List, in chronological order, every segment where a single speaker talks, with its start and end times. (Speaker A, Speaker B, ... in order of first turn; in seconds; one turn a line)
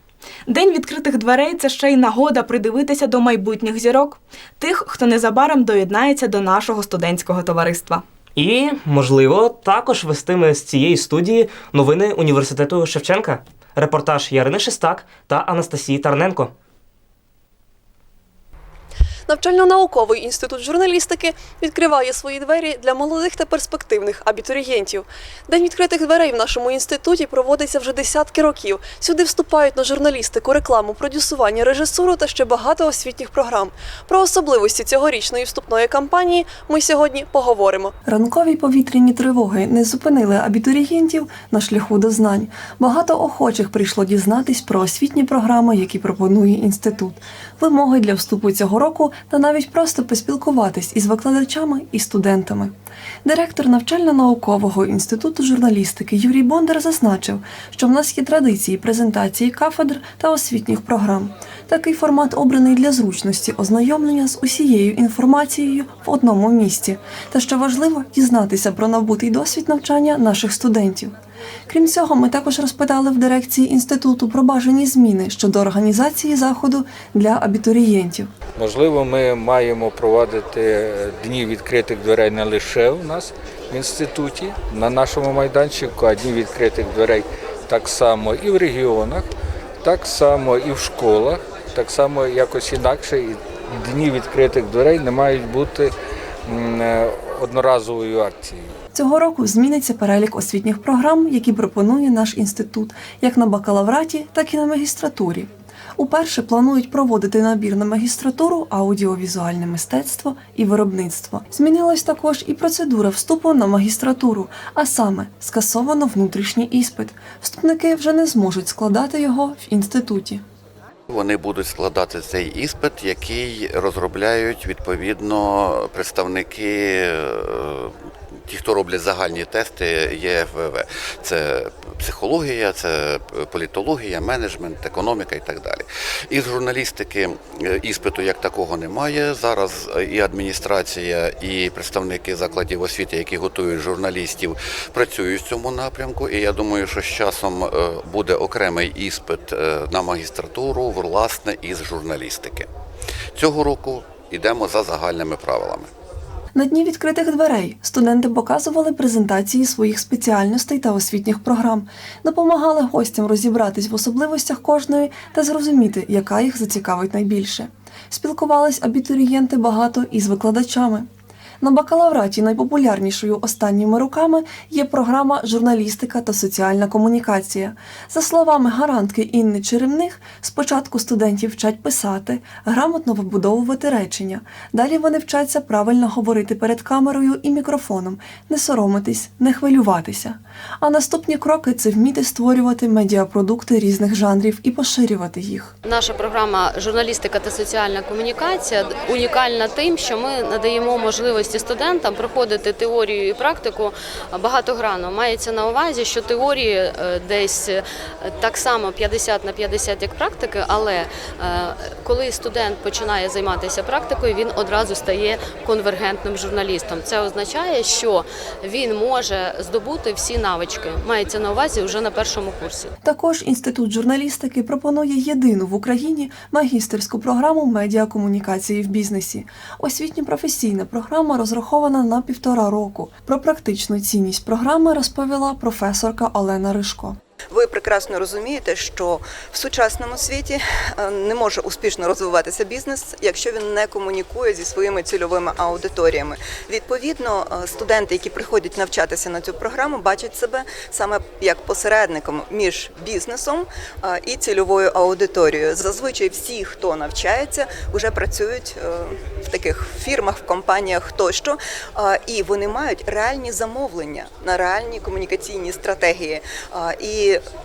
Speaker A: 0.5-8.0
Speaker B: 8.4-16.5
Speaker C: 19.3-37.9
Speaker D: 38.0-52.7
Speaker D: 53.2-71.1
Speaker D: 71.7-78.3
Speaker E: 78.6-89.3
Speaker E: 89.8-95.9
Speaker E: 96.5-98.7
Speaker D: 98.9-120.4
Speaker F: 121.1-127.2
Speaker F: 128.5-152.7
Speaker F: 153.4-155.9
Speaker D: 156.6-171.1
Speaker D: 171.6-195.7
Speaker G: 195.8-222.9
Speaker D: 223.0-237.2
Speaker H: 237.5-267.4